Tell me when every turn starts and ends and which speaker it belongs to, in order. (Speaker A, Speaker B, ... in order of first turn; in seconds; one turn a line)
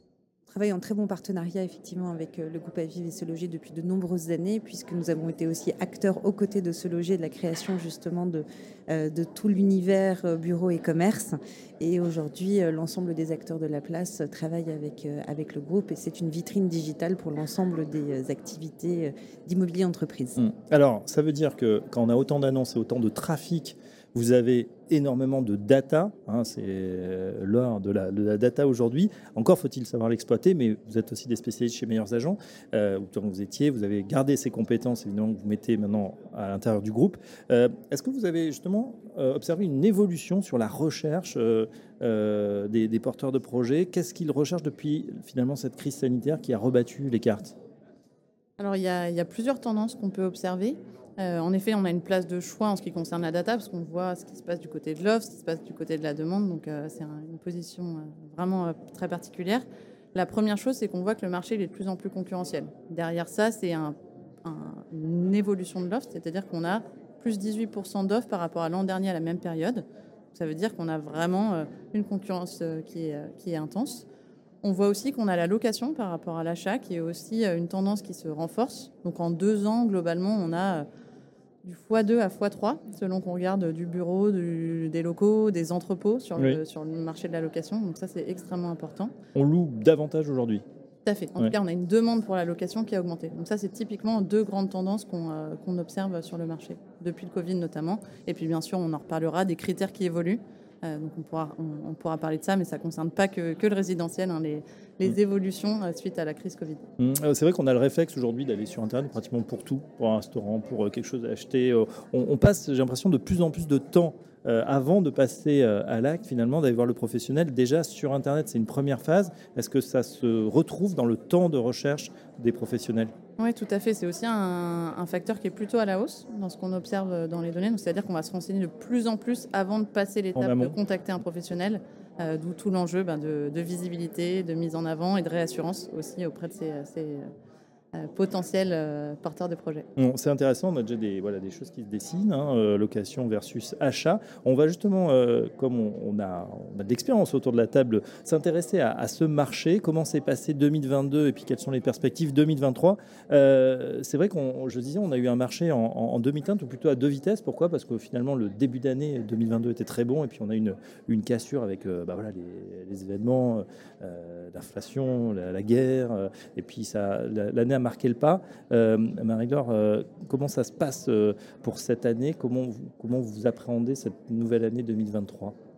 Speaker A: 0.5-20.4
Speaker B: 20.4-47.5
Speaker C: 48.6-74.0
Speaker C: 74.6-80.8
Speaker C: 81.6-89.1
Speaker B: 89.3-90.6
Speaker C: 91.0-106.8
Speaker B: 107.0-123.1
Speaker C: 123.4-137.3
Speaker B: 130.4-130.7
Speaker C: 137.9-139.9
Speaker B: 140.0-175.5